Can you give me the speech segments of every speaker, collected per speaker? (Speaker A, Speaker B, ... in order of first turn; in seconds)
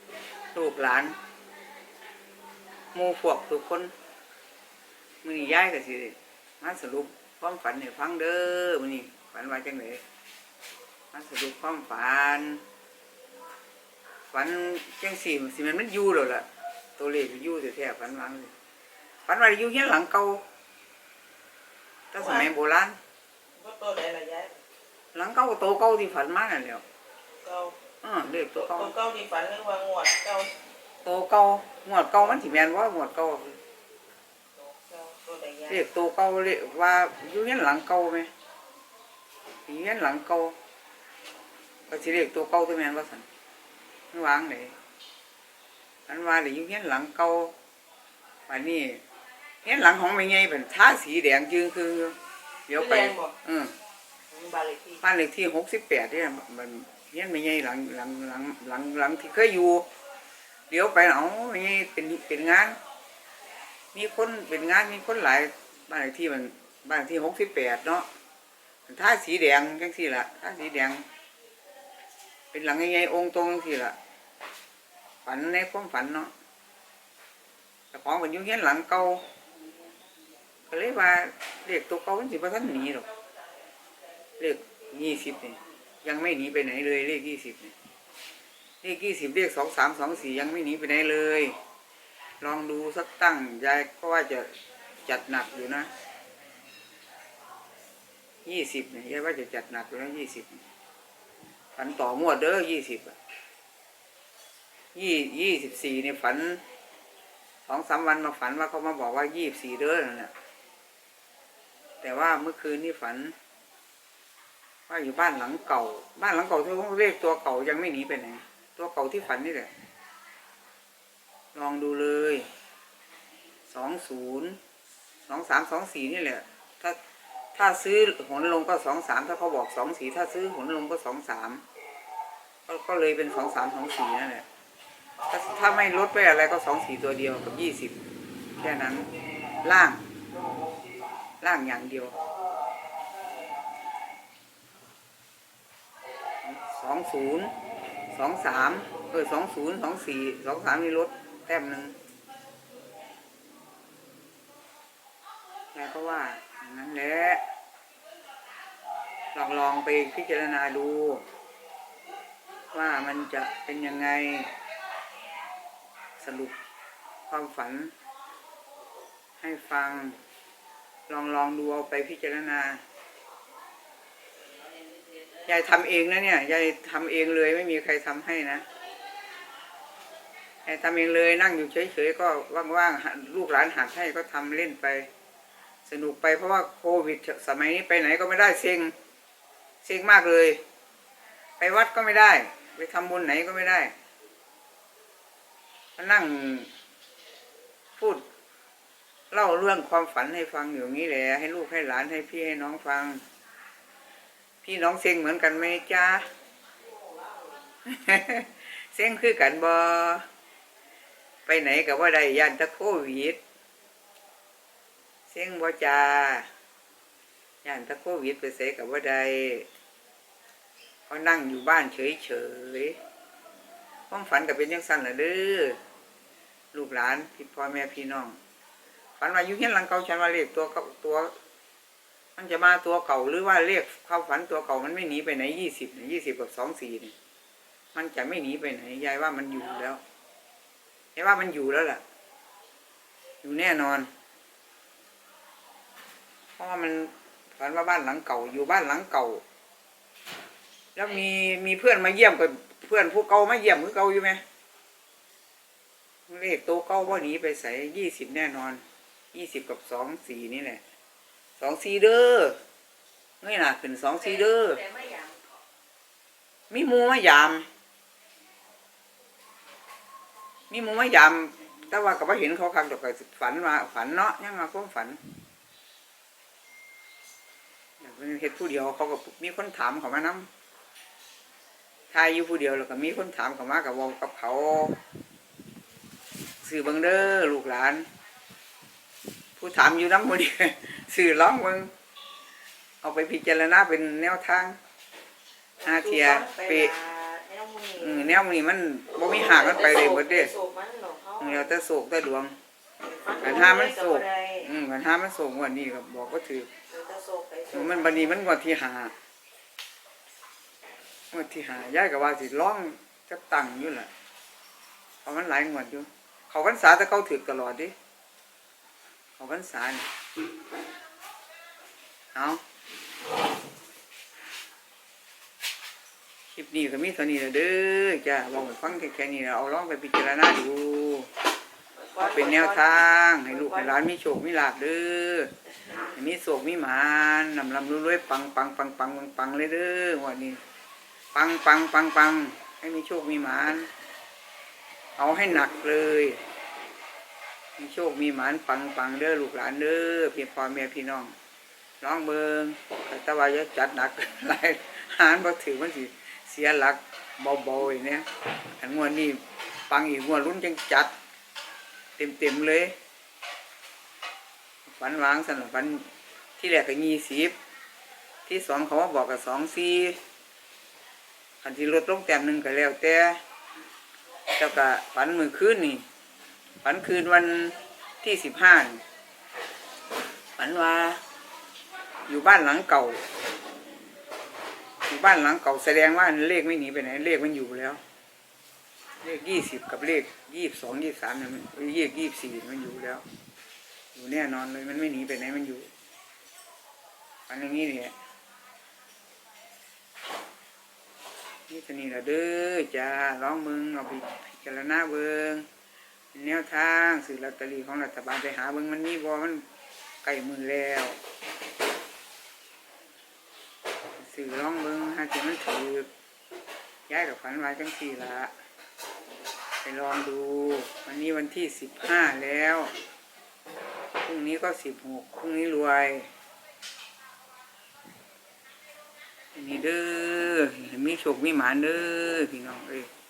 Speaker A: 0.5-1.2, 2.9-3.9, 5.2-10.0, 11.1-12.6, 14.3-18.5, 19.3-20.4, 22.1-23.0, 25.1-26.8, 28.0-28.9, 31.0-33.6, 35.7-38.3, 39.7-40.6, 41.9-43.3, 44.1-44.7, 46.1-47.5, 48.5-49.0, 49.6-53.8, 55.0-59.9, 60.7-62.8, 63.9-68.1, 68.9-71.0, 72.5-74.0, 75.2-76.3, 77.9-79.3, 80.7-83.1, 84.4-87.8, 88.8-91.6, 92.4-94.5, 95.0-95.9, 98.5-100.6, 101.8-103.2, 105.0-106.6, 107.7-110.3, 112.0-113.3, 114.9-119.7, 121.5-122.5, 123.7-124.6, 125.3-127.0, 127.5-131.6, 132.7-134.5, 135.3-138.0, 138.6-139.1, 139.6-140.0, 141.4-142.2, 146.4-147.5, 148.1-151.9, 155.7-157.4, 159.3-161.2, 162.7-164.5, 166.2-166.6, 167.3-167.9, 169.4-170.2, 171.1-172.8, 175.5-178.7, 180.7-185.1, 185.9-188.9, 189.8-190.6, 191.6-193.9, 196.0-196.7, 198.0-198.2, 199.3-203.2, 204.6-206.3, 207.9-210.3, 211.5-213.4, 215.3-216.5, 217.6-219.7, 221.1-223.0, 224.1-225.8, 226.7-228.4, 229.2-231.3, 232.4-237.2, 237.9-240.0, 241.2-242.0, 243.4-244.1, 246.6-249.4, 251.0-254.4, 256.3-260.8, 261.6-262.6, 263.4-264.9, 266.7-267.7, 270.7-275.2, 278.0-280.5, 282.1-285.0, 286.6-288.1, 289.6-291.9, 293.0-294.8, 295.8-296.9, 298.0-300.5, 301.4-302.6, 303.4-306.7, 307.7-309.1, 311.3-314.1, 315.2-317.9, 319.4-320.1, 322.4-322.6, 326.5-331.3, 332.1-335.5, 336.1-340.6, 341.3-343.9, 345.2-346.4, 347.8-351.3, 352.0-358.3, 358.8-361.1, 362.2-362.9, 364.9-366.1, 366.6-367.6, 368.5-370.2, 371.6-373.4, 374.6-376.0, 376.8-379.0, 380.6-381.2, 382.3-383.2, 385.1-388.0, 389.2-393.2, 394.1-395.9, 397.5-398.1, 401.7-405.7, 406.3-409.6, 410.2-411.2, 414.2-416.1, 417.1-418.5, 419.8-422.9, 424.2-426.3, 429.6-433.1
Speaker B: 22.2-22.5, 23.6-24.6, 27.4-27.8, 28.6-30.5, 34.6-35.8, 52.8-53.3, 54.3-55.0, 295.8-298.4, 299.3-301.7, 303.0-304.7, 306.9-308.4, 332.0-334.0